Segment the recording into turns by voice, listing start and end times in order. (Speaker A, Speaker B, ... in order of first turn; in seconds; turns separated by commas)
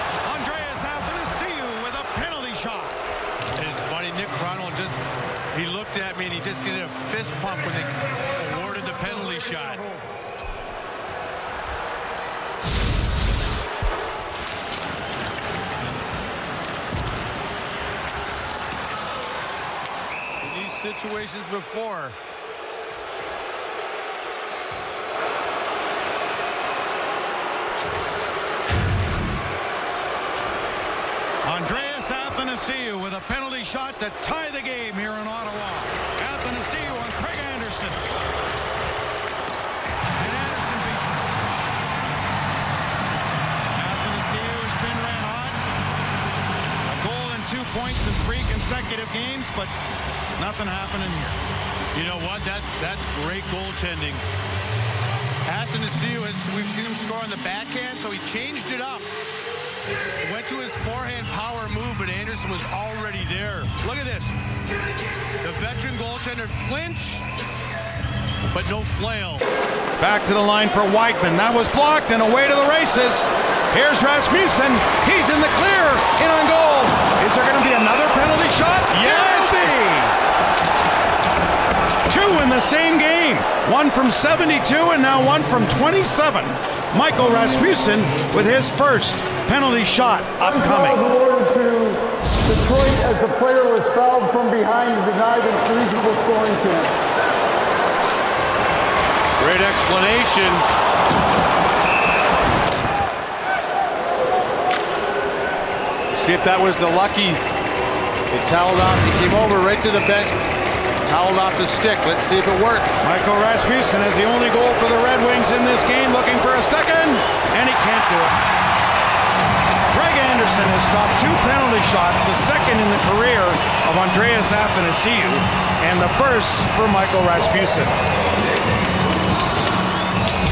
Speaker A: 0.2-3.0, Speaker B: 3.5-5.0, Speaker B: 5.5-9.9, Speaker B: 20.4-22.2, Speaker A: 31.4-38.0, Speaker A: 40.1-41.3, Speaker A: 43.7-45.6, Speaker A: 46.8-49.7, Speaker A: 50.4-51.4, Speaker B: 51.9-54.2, Speaker B: 55.5-59.1, Speaker B: 60.2-64.3, Speaker B: 65.4-67.2, Speaker B: 68.5-69.4, Speaker A: 70.0-79.7, Speaker B: 78.9-80.1, Speaker A: 82.0-91.2, Speaker C: 91.1-97.0, Speaker B: 99.4-100.6, Speaker B: 106.1-107.4, Speaker B: 108.3-110.4, Speaker B: 111.0-112.9, Speaker A: 113.0-118.4, Speaker A: 119.9-128.0